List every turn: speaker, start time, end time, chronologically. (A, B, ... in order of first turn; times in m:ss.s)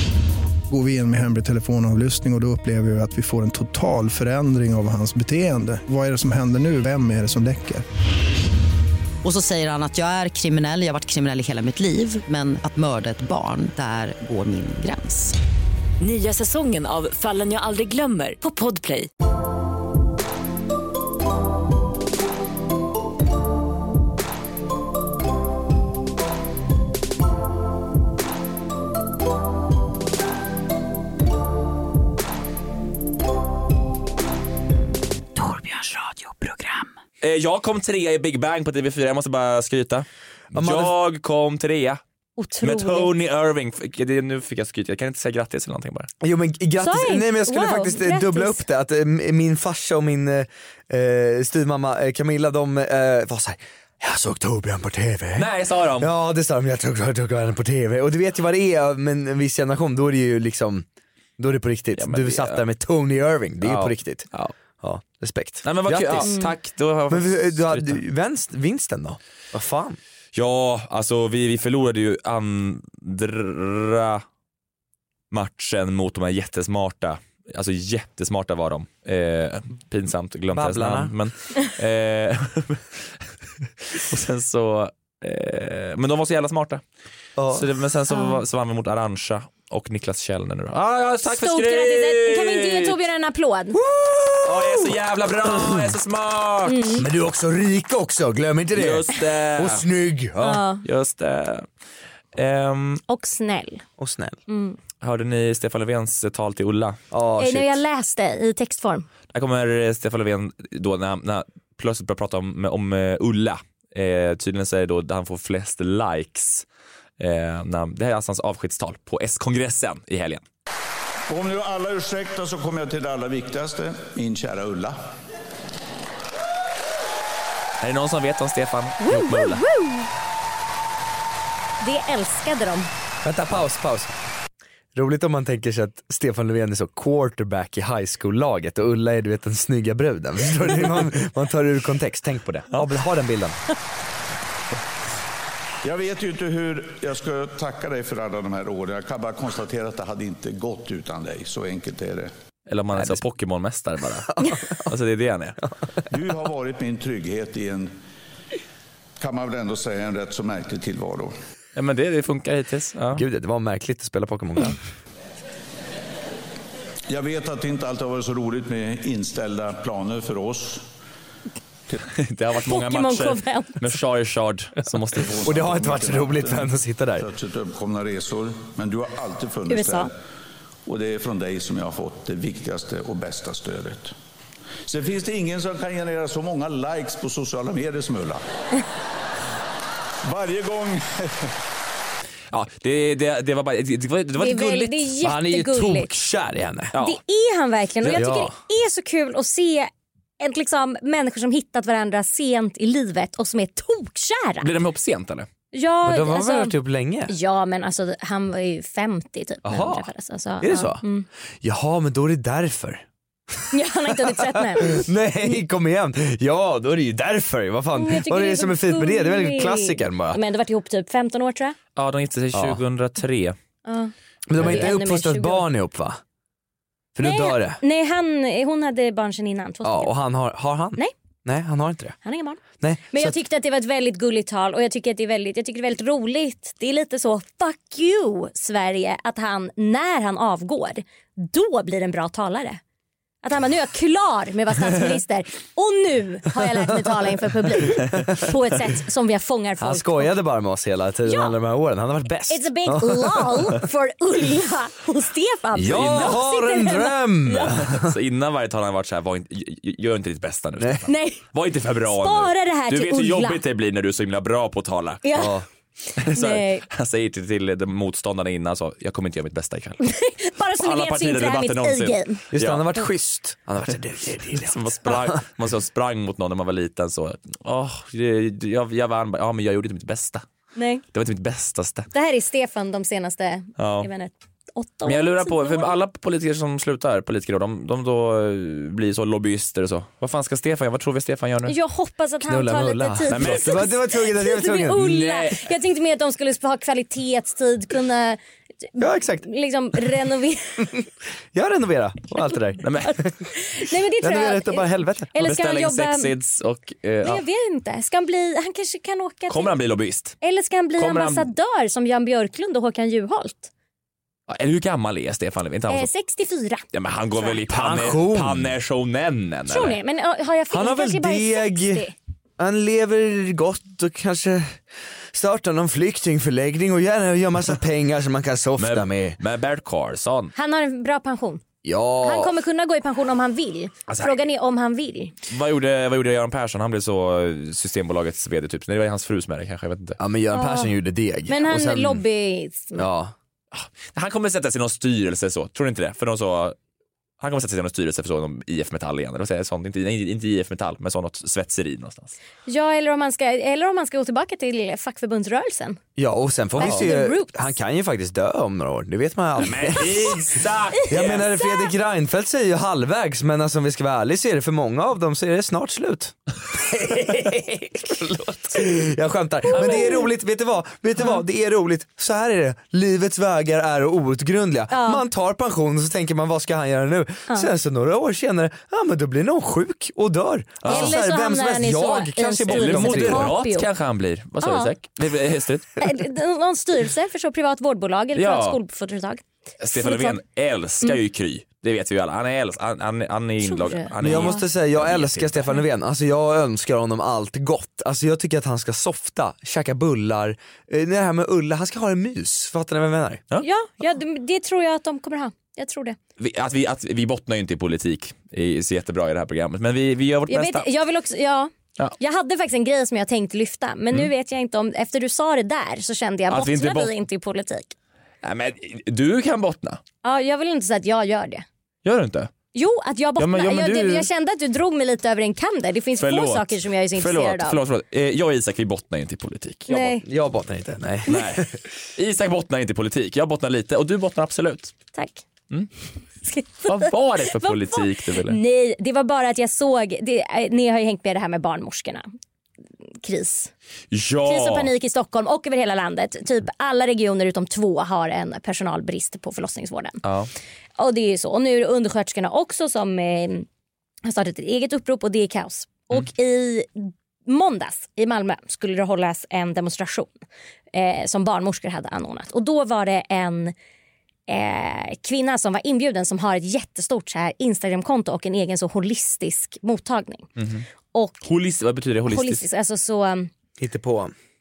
0:00.7-0:07.8 A
0:09.2-0:15.4 B
0:16.0-0:19.1 C
0:37.2-0:42.0 D
0:40.5-0:40.9 E
0:42.4-0:43.1 F
0:42.6-0:46.1 D
0:46.2-1:00.8 E
0:46.8-0:48.6 F
0:55.4-0:56.1 D
1:01.4-1:04.3 E
1:02.0-1:02.6 D
1:03.6-1:04.5 D
1:04.8-1:06.4 E
1:05.6-1:08.0 D
1:06.2-1:06.5 F
1:07.1-1:10.0 E
1:10.3-1:14.2 D
1:15.3-1:23.1 D
1:20.5-1:21.1 E
1:23.7-1:26.8 D
1:27.4-1:27.7 E
1:27.5-1:33.0 D
1:31.3-1:33.8 F
1:33.7-1:34.9 E
1:34.4-1:37.0 D
1:35.5-1:35.8 E
1:36.7-1:37.0 F
1:37.0-1:40.6 E
1:38.8-1:39.8 D
1:40.4-1:40.8 F
1:40.8-1:41.7 D
1:42.4-1:43.0 D
1:43.1-1:43.8 F
1:44.0-1:44.4 E
1:44.5-1:44.8 F
1:45.0-1:47.0 D
1:47.1-1:47.8 E
1:47.4-1:49.1 F
1:49.3-1:56.7 D
1:57.2-2:00.4 D
2:01.3-2:05.0 G
2:07.8-2:09.6 D
2:09.0-2:10.1 F
2:11.8-2:12.9 F
2:13.2-2:14.2 E
2:15.0-2:23.6 E
2:25.8-2:32.3 G
2:32.7-2:35.6 D
2:34.4-2:34.8 E
2:36.1-2:37.9 G
2:39.2-2:41.3 G
2:41.8-2:43.2 D
2:43.1-2:44.8 E
2:47.1-2:50.8 G
2:52.2-2:55.5 D
2:52.7-2:53.8 F
2:55.2-3:00.1 G
2:55.4-2:57.3 E
2:59.7-3:00.1 F
3:00.9-3:04.1 G
3:04.9-3:08.4 G
3:10.2-3:11.5 G
3:12.5-3:15.1 D
3:14.4-3:16.1 F
3:15.2-3:16.9 E
3:16.9-3:17.2 D
3:17.0-3:24.7 F
3:18.0-3:18.4 D
3:18.1-3:18.5 E
3:24.6-3:25.5 D
3:25.7-3:26.8 F
3:26.0-3:27.3 E
3:27.3-3:31.3 F
3:29.6-3:30.1 E
3:30.6-3:31.0 E
3:31.6-3:33.0 E
3:33.7-3:35.0 F
3:34.2-3:40.4 E
3:38.0-3:41.8 F
3:42.0-3:43.6 D
3:42.5-3:42.8 E
3:43.8-3:45.6 F
3:44.5-3:46.2 E
3:44.6-3:44.9 D
3:47.2-3:47.8 E
3:47.2-3:50.1 F
3:49.8-3:52.2 E
3:52.2-4:02.8 F
3:52.8-3:53.4 E
4:03.4-4:10.3 F
4:09.8-4:13.8 E
4:11.3-4:11.6 F
4:12.5-4:17.7 F
4:15.8-4:18.1 E
4:15.9-4:16.4 D
4:17.7-4:25.2 D
4:21.1-4:21.4 F
4:22.1-4:23.6 F
4:25.2-4:25.5 F
4:25.4-4:25.6 E
4:26.2-4:26.8 F
4:26.2-4:30.0 D
4:30.0-4:32.4 F
4:30.8-4:32.8 D
4:32.5-4:35.4 E
4:34.5-4:40.4 D
4:40.8-4:41.0 F
4:41.1-4:42.1 D
4:42.1-4:46.0 F
4:43.8-4:44.1 D
4:45.0-4:51.8 D
4:51.7-4:58.4 F
4:52.5-4:55.0 E
4:53.3-4:53.8 D
4:55.0-4:55.6 D
4:58.9-5:00.9 F
4:59.0-4:59.5 E
5:01.5-5:02.9 E
5:02.8-5:03.2 D
5:03.1-5:06.3 F
5:04.2-5:05.3 E
5:05.4-5:07.4 D
5:07.2-5:09.8 F
5:09.5-5:10.4 D
5:10.4-5:13.7 F
5:11.0-5:11.5 D
5:14.5-5:16.1 D
5:15.9-5:16.8 F
5:16.9-5:20.0 D
5:17.7-5:18.7 E
5:19.7-5:22.1 F
5:20.7-5:22.1 E
5:22.6-5:24.8 E
5:25.3-5:29.4 E
5:28.8-5:30.5 D
5:30.6-5:31.6 F
5:31.8-5:32.5 E
5:32.2-5:35.3 F
5:34.1-5:34.3 D
5:35.5-5:40.2 D
5:40.2-5:42.2 E
5:40.5-5:40.9 F
5:41.5-5:43.1 F
5:43.0-5:43.3 E
5:43.7-5:46.8 D
5:47.4-5:52.4 D
5:52.7-5:56.0 F
5:56.2-6:00.4 E
5:56.8-5:57.7 F
5:59.6-6:01.5 D
6:01.1-6:23.6 E
6:09.7-6:10.3 F
6:14.9-6:15.2 F
6:20.8-6:21.2 D
6:20.8-6:23.9 F
6:22.7-6:26.0 D
6:24.6-6:24.9 F
6:26.0-6:29.4 F
6:28.3-6:28.8 D
6:29.8-6:35.7 D
6:30.0-6:30.4 F
6:33.6-6:34.7 F
6:34.2-6:43.4 E
6:43.6-6:46.2 F
6:46.4-6:50.9 D
6:50.5-6:57.9 F
6:56.5-6:57.1 D
6:58.4-7:00.0 D
7:00.2-7:01.6 F
7:02.0-7:02.5 D
7:02.8-7:07.8 F
7:03.4-7:04.3 D
7:06.2-7:09.9 D
7:09.9-7:10.2 F
7:09.9-7:11.8 E
7:11.3-7:15.0 D
7:15.2-7:15.4 F
7:16.5-7:22.3 F
7:16.8-7:18.6 D
7:23.2-7:23.7 F
7:24.1-7:24.9 D
7:24.4-7:30.2 F
7:30.2-7:30.5 D
7:31.0-7:33.7 F
7:34.2-7:40.3 F
7:40.9-7:43.7 F
7:44.5-7:50.5 F
7:50.6-7:50.9 D
7:51.1-7:51.4 F
7:51.4-7:52.6 D
7:52.3-7:53.5 F
7:53.8-7:54.3 E